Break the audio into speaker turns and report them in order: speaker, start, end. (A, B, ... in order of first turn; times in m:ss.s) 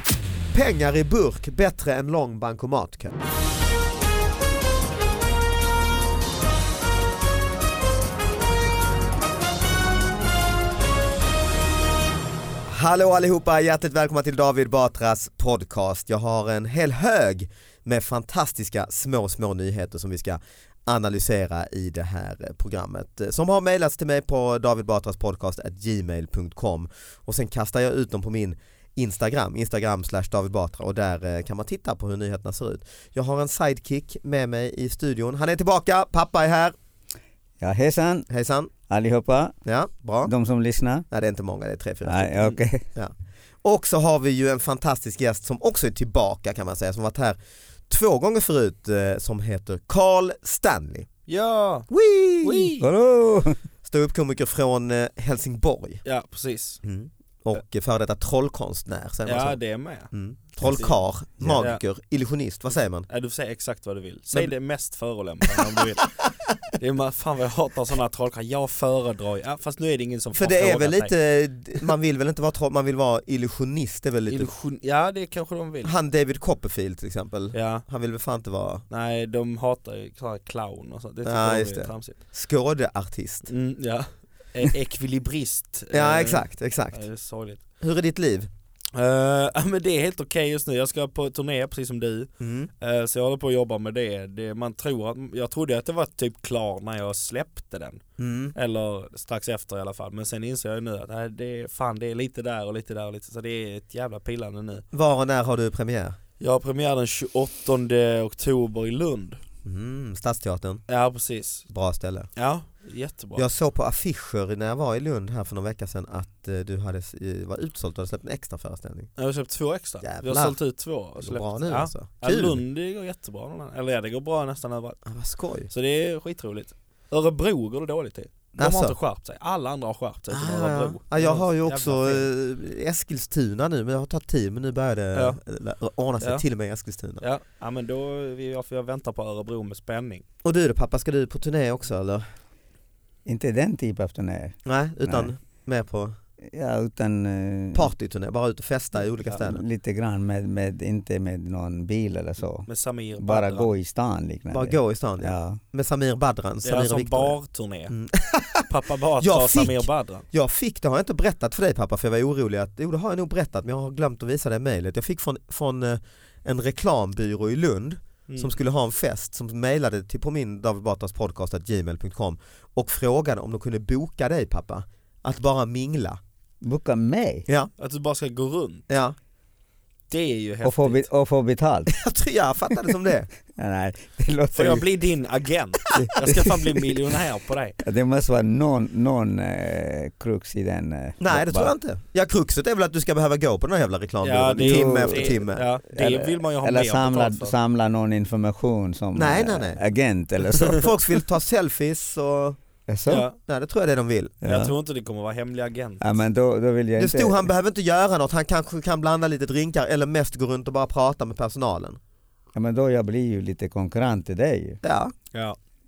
0:00.5-0:03.2 A
0:12.7-0:36.7 A
0:37.6-0:38.3 B
0:38.3-0:38.7 A
0:38.9-0:39.5 B
0:39.6-0:40.3 A
0:40.2-0:41.0 B
0:41.1-0:42.4 A
0:42.0-0:42.8 B
0:43.6-0:47.4 A
0:47.9-0:51.1 A
0:51.3-0:51.9 C
0:51.9-0:52.7 A
0:52.4-0:52.9 C
0:52.8-0:53.6 B
0:53.8-0:56.0 A
0:56.0-0:56.8 C
0:56.8-0:59.6 A
0:59.2-1:01.8 C
1:00.1-1:03.1 A
1:03.1-1:06.1 C
1:06.8-1:11.1 C
1:10.3-1:14.5 A
1:14.3-1:15.9 C
1:15.8-1:18.8 A
1:17.5-1:17.8 C
1:18.9-1:22.2 C
1:21.2-1:23.5 A
1:23.5-1:27.6 C
1:25.9-1:27.0 A
1:27.8-1:28.5 A
1:28.9-1:38.0 C
1:32.4-1:32.7 A
1:38.2-1:38.5 A
1:38.5-1:44.8 C
1:44.9-1:46.2 A
1:46.4-1:49.4 C
1:49.6-1:50.8 A
1:50.9-1:51.6 C
1:51.7-1:52.3 A
1:52.4-1:53.4 C
1:53.4-1:59.1 A
1:59.2-2:05.0 C
2:00.0-2:00.6 A
2:01.2-2:02.6 A
2:05.0-2:05.7 A
2:05.7-2:12.3 C
2:08.6-2:09.0 A
2:10.3-2:17.2 A
2:17.2-2:20.2 C
2:20.4-2:22.2 A
2:23.2-2:25.3 B
2:24.6-2:26.1 A
2:26.4-2:27.9 B
2:27.7-2:29.6 A
2:29.4-2:32.7 B
2:32.7-2:33.7 C
2:33.2-2:35.6 B
2:34.5-2:37.3 A
2:36.6-2:37.9 C
2:37.9-2:38.7 A
2:38.7-2:40.2 C
2:39.2-2:56.2 A
2:48.3-2:48.5 C
2:56.6-2:57.4 B
2:57.8-2:58.8 C
2:58.9-2:59.1 A
3:00.1-3:01.0 C
3:00.6-3:01.9 B
3:01.9-3:03.3 A
3:03.5-3:04.8 B
3:04.5-3:07.8 C
3:05.9-3:06.6 B
3:07.8-3:11.7 B
3:11.2-3:15.6 A
3:14.2-3:17.5 C
3:14.6-3:15.4 B
3:15.9-3:20.9 B
3:19.1-3:19.8 A
3:20.5-3:22.6 A
3:22.9-3:23.3 B
3:23.1-3:23.4 C
3:23.4-3:24.4 A
3:24.4-3:24.7 B
3:24.4-3:26.0 C
3:26.0-3:27.5 B
3:27.0-3:32.0 A
3:32.5-3:34.8 B
3:34.8-3:35.1 A